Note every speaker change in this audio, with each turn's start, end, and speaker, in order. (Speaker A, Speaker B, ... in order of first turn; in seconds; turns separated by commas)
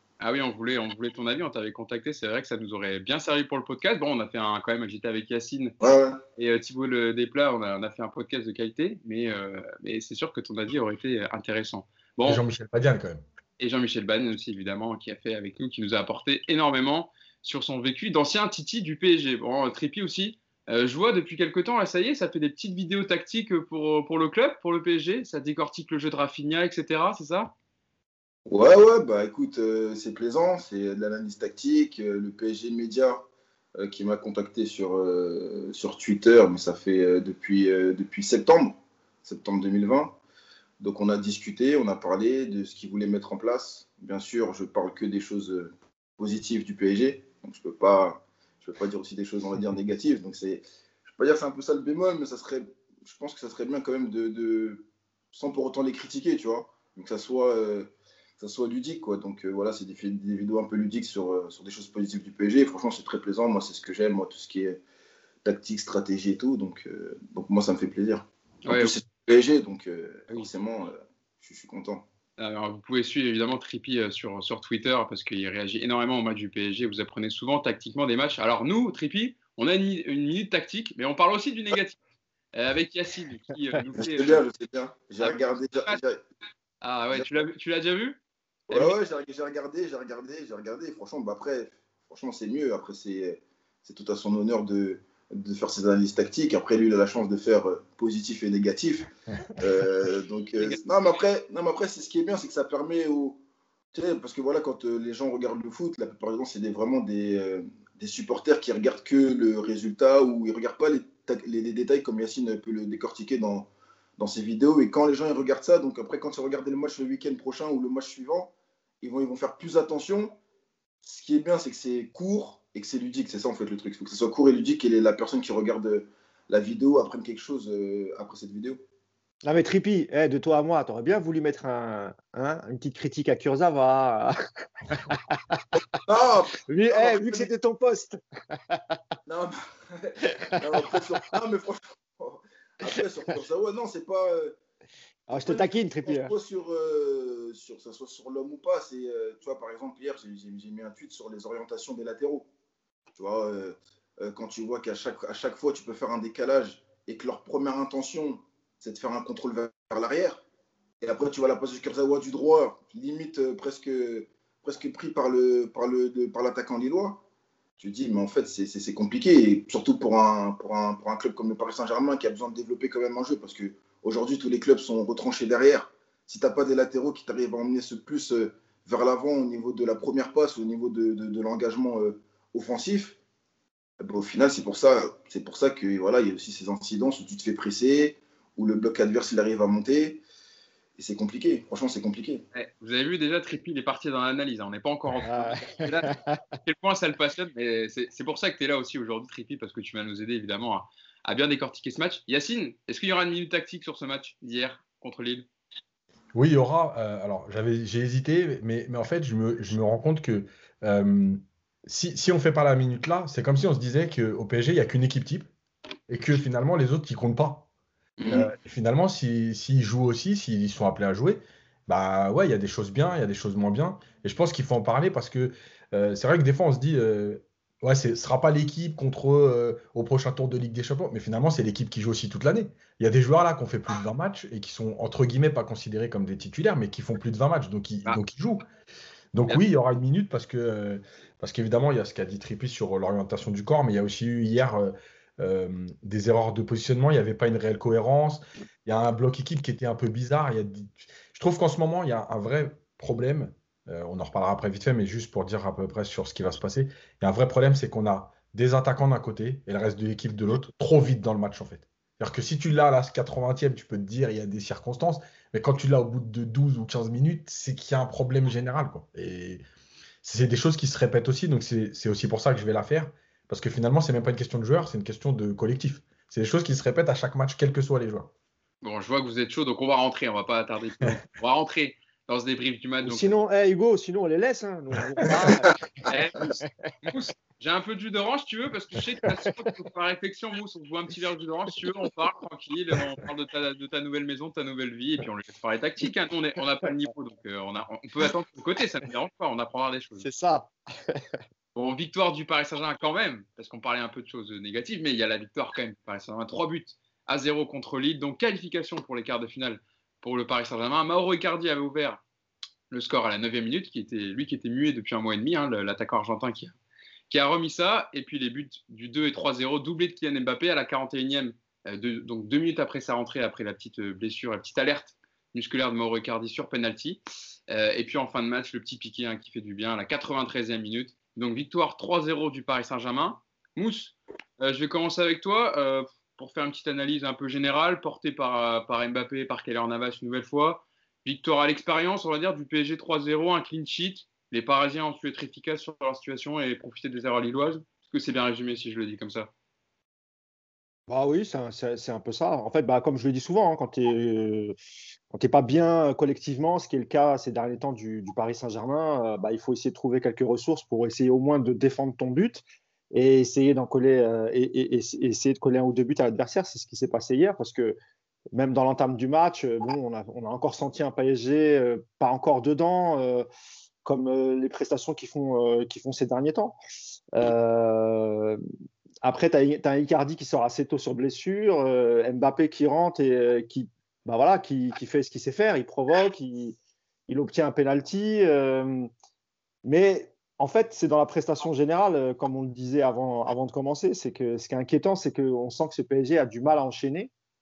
Speaker A: 0.2-5.7, Speaker B: 5.8-6.2, Speaker A: 6.3-12.4, Speaker C: 12.2-13.2, Speaker A: 13.6-27.5, Speaker B: 28.5-33.3, Speaker B: 33.8-40.2, Speaker B: 40.8-64.8, Speaker B: 65.4-72.0, Speaker A: 68.7-69.0, Speaker A: 72.4-82.0, Speaker A: 82.5-84.4, Speaker B: 84.0-86.2, Speaker A: 85.2-86.0, Speaker A: 86.8-89.0, Speaker B: 88.7-103.4, Speaker B: 103.9-120.3, Speaker B: 121.0-128.8, Speaker D: 129.4-135.8, Speaker B: 136.1-137.5, Speaker D: 136.7-139.0, Speaker B: 139.3-144.6, Speaker D: 140.2-141.0, Speaker D: 145.3-146.3, Speaker B: 145.3-152.5, Speaker B: 153.2-160.4, Speaker B: 161.0-167.2, Speaker B: 167.8-183.2, Speaker B: 184.0-190.2, Speaker B: 191.0-192.4, Speaker A: 192.5-205.4, Speaker D: 195.2-196.4, Speaker C: 206.3-215.5, Speaker C: 216.1-217.7, Speaker A: 218.2-218.5, Speaker C: 218.3-238.6, Speaker C: 239.3-269.6, Speaker C: 270.2-278.3, Speaker A: 278.8-283.4, Speaker D: 283.0-285.8, Speaker A: 286.1-286.5, Speaker D: 286.4-286.7, Speaker A: 287.1-300.3, Speaker D: 300.2-301.2, Speaker A: 301.7-312.2, Speaker A: 312.9-316.8, Speaker A: 317.3-349.5, Speaker D: 351.1-354.8, Speaker D: 355.3-367.9, Speaker D: 368.5-373.4, Speaker D: 374.0-376.8, Speaker D: 377.4-378.6, Speaker D: 379.2-386.8, Speaker D: 387.3-389.1, Speaker D: 389.8-397.3